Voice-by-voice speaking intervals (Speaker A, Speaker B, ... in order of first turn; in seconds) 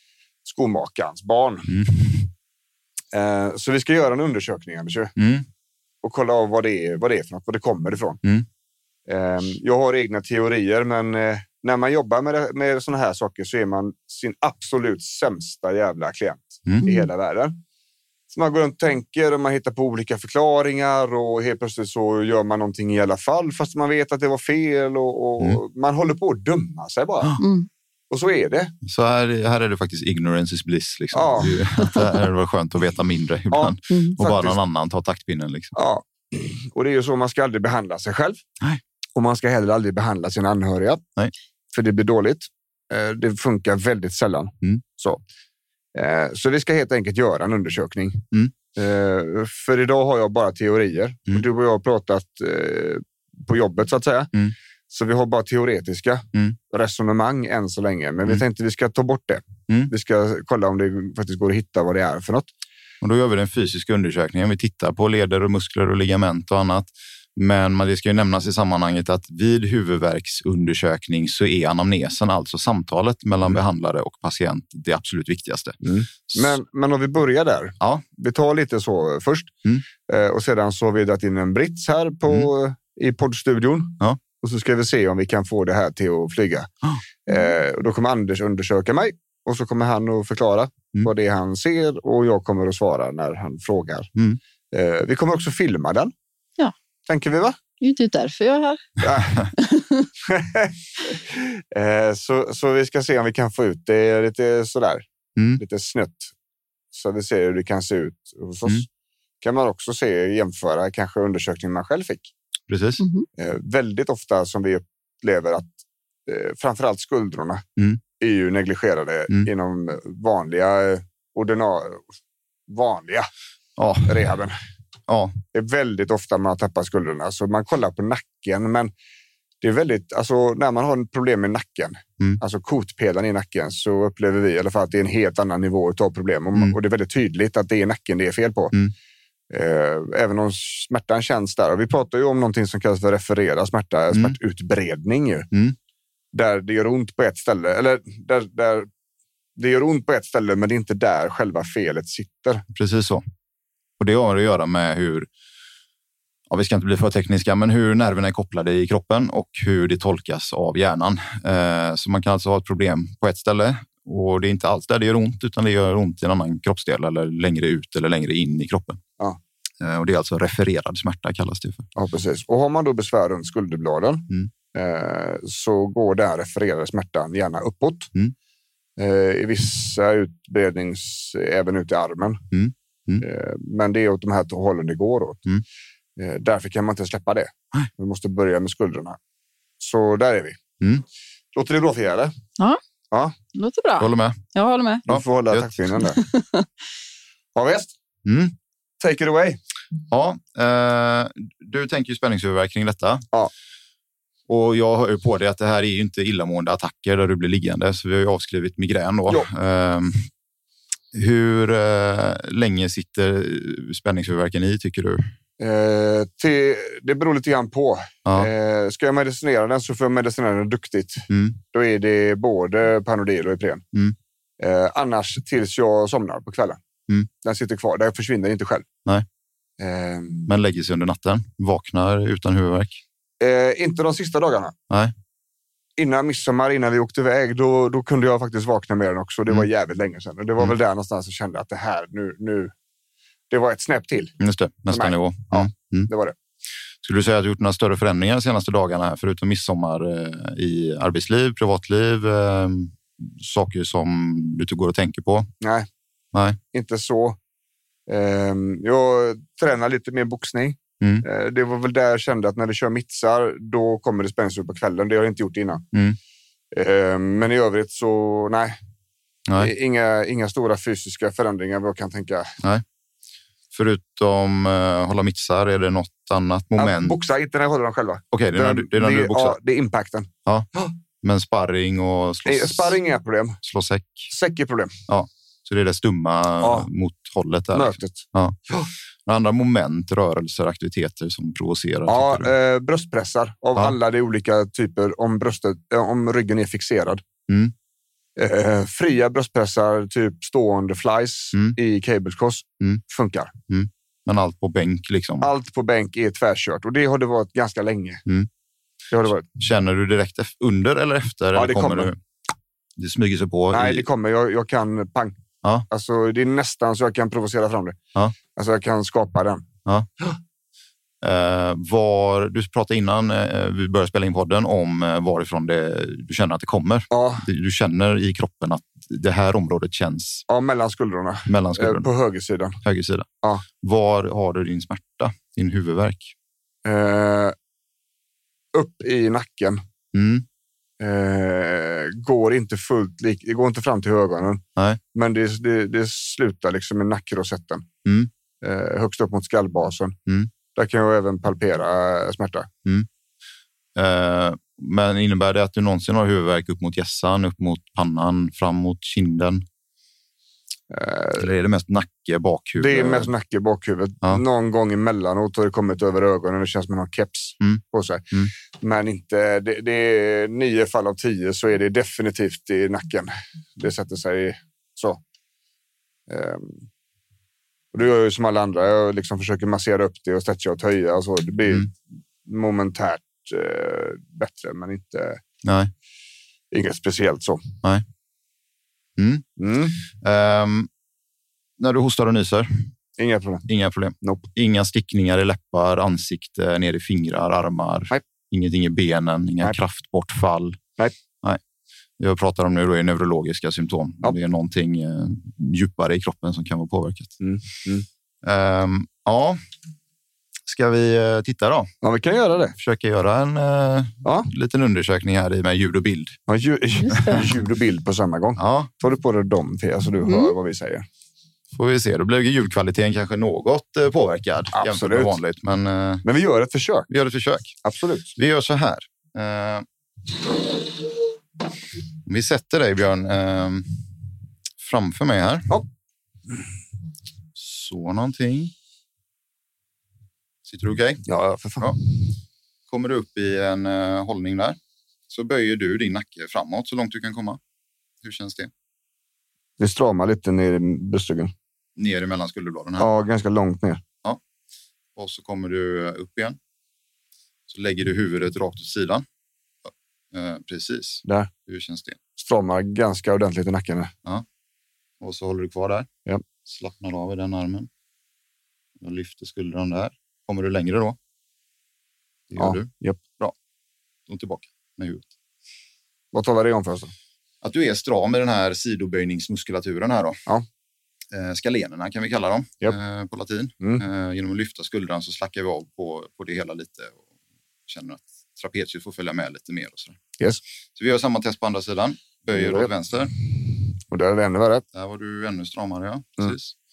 Speaker A: 0.5-1.7, 3.1-5.1, 6.0-8.2, 9.1-17.6, 18.3-27.4, 28.1-28.7, 31.1-31.6, 33.5-34.6, 35.8-38.4, 39.2-41.0, 41.7-45.2, 46.0-54.3, 54.9-62.5, 75.8-79.5, 80.1-86.7, 87.3-94.1, 94.7-96.1, 97.1-97.6, 99.0-99.5, 100.2-106.3, 106.9-108.9, 109.4-112.3, 113.4-117.7, 118.2-122.1, 122.7-123.3, 124.0-124.6, 125.5-128.9, 129.6-138.8, 139.5-145.5, 146.3-148.9, 149.6-152.6, 172.0-178.1, 179.0-182.4, 183.2-185.5, 186.2-189.2, 189.8-190.6, 191.6-192.3, 193.1-193.4, 195.1-196.2, 197.6-197.9, 199.0-199.6, 215.6-223.8, 224.6-226.8, 227.4-228.9, 229.8-230.5, 233.4-234.8, 236.0-242.7, 243.5-244.3, 244.9-246.4, 255.6-255.9, 256.7-257.4, 258.1-265.9, 266.7-268.8, 269.6-272.6, 276.8-280.3, 282.5-283.6, 284.3-285.0, 286.6-286.9, 287.7-288.2, 292.1-297.2, 298.4-303.5, 305.4-308.2, 309.1-309.5, 311.6-312.1, 313.7-318.0, 318.6-319.6, 327.1-327.5, 330.5-332.8, 336.9-337.6, 338.7-339.8, 341.0-344.6, 345.1-347.9, 348.6-350.2, 350.7-352.7, 360.9-361.5, 362.8-375.2, 376.3-376.9, 377.9-385.4, 386.7-387.6, 389.6-390.0, 393.2-393.7, 394.2-394.5, 407.4-408.1, 412.0-412.8, 414.2-414.5, 416.5-421.1, 424.7-425.4, 426.2-427.1, 427.8-428.3, 441.3-441.9, 449.8-451.5, 453.0-454.0, 461.2-461.5, 462.4-464.1, 472.6-473.2, 476.3-477.1, 492.5-492.9, 494.1-494.9
Speaker B: 1.7-2.3, 5.2-5.5, 28.8-35.7, 63.0-75.8, 76.3-76.5, 105.4-105.6, 112.7-113.0, 123.8-124.2, 125.1-125.4, 152.7-153.2, 154.0-155.3, 156.5-169.0, 169.8-171.9, 182.5-183.2, 194.0-194.4, 195.1-196.0, 198.2-198.6, 200.1-203.3, 204.5-210.3, 211.1-215.3, 221.3-221.6, 230.5-233.0, 244.4-246.1, 247.0-255.5, 256.3-256.6, 265.9-266.2, 273.7-277.2, 278.3-279.6, 281.2-283.0, 283.6-284.3, 285.1-292.5, 297.5-297.7, 303.7-305.5, 309.5-312.2, 313.0-314.1, 321.2-330.4, 331.5-332.1, 332.8-333.3, 333.8-336.3, 340.1-340.5, 348.1-348.3, 353.9-359.6, 361.4-363.3, 367.6-368.5, 385.6-385.9, 389.2-389.5, 390.0-390.9, 391.8-392.9, 393.7-400.8, 402.2-407.4, 408.4-409.6, 410.7-411.9, 412.8-416.4, 417.2-417.4, 418.6-418.9, 421.7-426.2, 427.1-427.8, 428.4-429.9, 432.2-434.1, 434.8-435.7, 437.6-438.7, 440.6-441.2, 442.9-444.8, 445.3-447.6, 448.2-448.7, 452.0-453.1, 455.2-456.6, 457.7-459.3, 459.9-462.2, 465.2-466.1, 466.6-467.9, 469.0-471.2, 472.5-473.6, 474.3-475.3, 477.6-480.4, 481.3-487.2, 487.9-490.2, 490.9-493.3, 494.9-496.8
Speaker C: 27.4-27.7, 33.9-34.2, 97.8-99.0, 99.6-100.1, 113.0-113.3, 193.6-195.1, 196.2-196.7, 420.2-420.5